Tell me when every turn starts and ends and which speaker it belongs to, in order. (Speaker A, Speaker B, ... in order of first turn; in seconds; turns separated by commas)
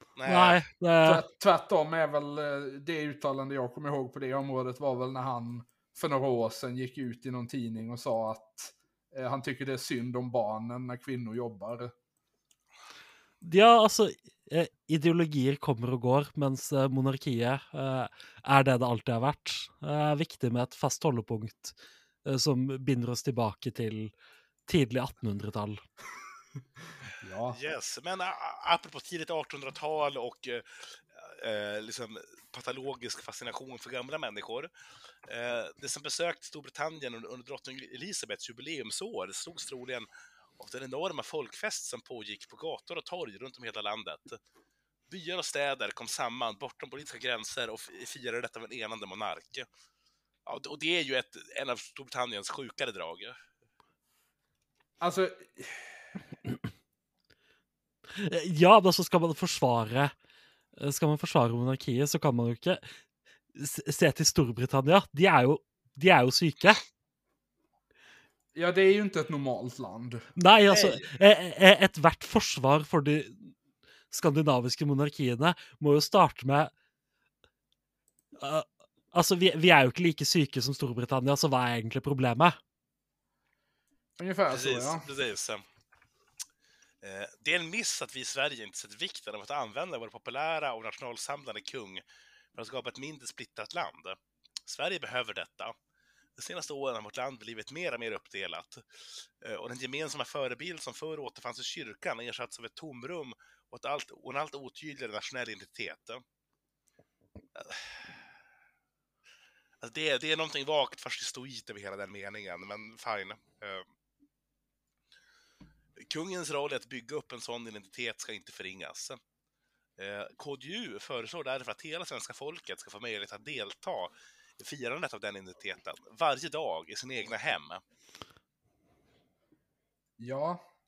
Speaker A: 0.2-0.6, Speaker B: 0.3-1.2, Speaker C: 1.1-11.9, Speaker B: 13.4-24.1, Speaker B: 24.7-25.8, Speaker C: 27.2-27.6, Speaker A: 27.5-34.7, Speaker A: 35.3-44.4, Speaker A: 45.1-49.7, Speaker A: 50.5-53.4, Speaker C: 55.0-56.0, Speaker B: 58.2-60.1, Speaker B: 60.8-62.9, Speaker B: 63.5-66.8, Speaker C: 68.5-70.3, Speaker B: 70.4-73.5, Speaker A: 70.7-71.0, Speaker B: 74.1-76.7, Speaker B: 78.4-82.6, Speaker C: 84.2-85.1, Speaker A: 84.5-85.6, Speaker A: 87.0-92.0, Speaker A: 92.5-95.8, Speaker A: 96.4-98.8, Speaker A: 99.4-106.2, Speaker A: 107.6-108.1, Speaker A: 109.8-113.8, Speaker A: 116.0-119.2, Speaker A: 120.0-127.8, Speaker C: 130.2-130.6